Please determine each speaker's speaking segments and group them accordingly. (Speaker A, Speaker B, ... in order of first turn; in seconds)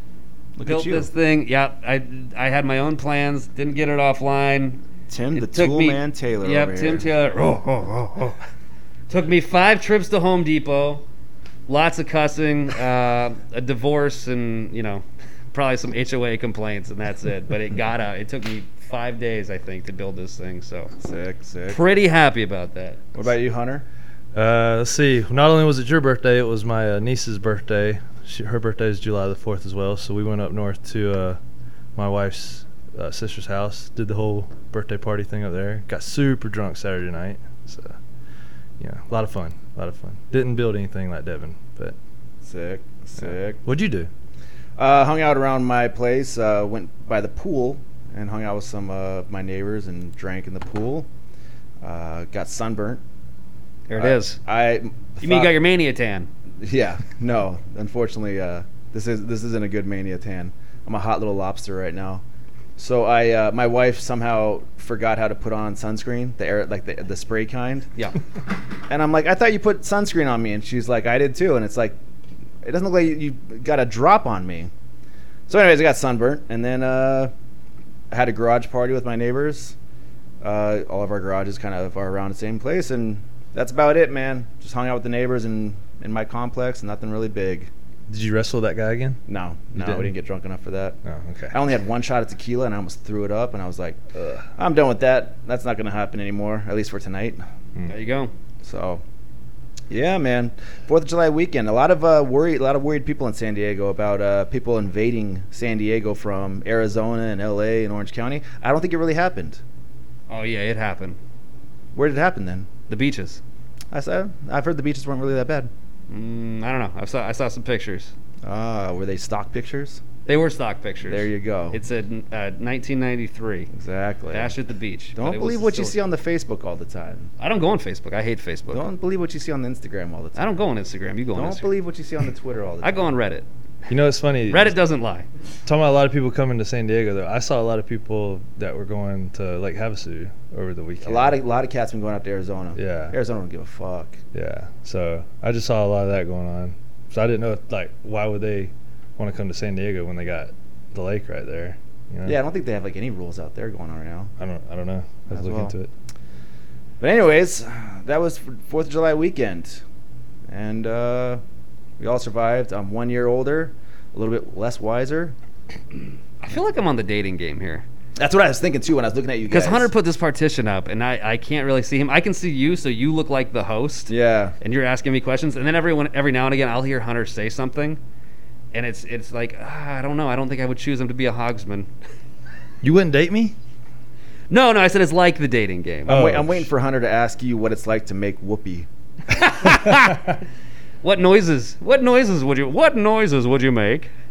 Speaker A: 0.6-1.1, 5.1-7.1, 21.0-21.9, 23.1-23.9, 42.4-43.6, 44.8-51.1, 51.8-53.0, 54.0-55.6, 56.6-62.2, 62.8-67.9, 68.9-72.0, 72.6-74.7, 75.5-77.3, 78.1-79.8, 80.4-87.7, 89.3-91.0, 91.5-94.0, 94.6-97.4, 98.6-99.0, 99.9-109.6, 111.9-112.7, 113.9-115.7, 118.4-120.0, 121.1-121.8, 123.7-124.5, 125.2-127.3, 128.7-130.6, 131.3-133.1, 141.0-144.2, 152.2-154.3, 155.3-155.7, 157.0-159.8, 160.5-161.4, 162.0-165.3, 168.2-169.9, 174.1-174.6, 186.1-188.9
Speaker B: 0.7-4.8, 5.3-8.4, 9.1-11.0, 11.7-20.9, 21.7-23.1, 53.9-54.4, 55.2-56.3, 97.9-98.3, 110.3-111.2, 112.9-113.4, 116.1-118.1, 120.3-123.7, 124.3-126.0, 127.4-128.9, 130.4-131.7, 132.8-133.5, 134.5-135.3, 166.4-167.8, 169.5-178.0, 178.7-181.9, 184.5-186.2, 189.3-190.2, 191.0-194.1
Speaker C: 24.3-31.4, 32.0-38.0, 38.8-42.0, 43.3-44.1, 88.1-89.2, 89.8-90.1, 91.0-91.5, 94.2-94.5, 133.9-134.8, 135.7-141.4, 142.8-143.2, 144.3-152.4, 154.4-155.9, 182.8-183.6, 186.1-186.7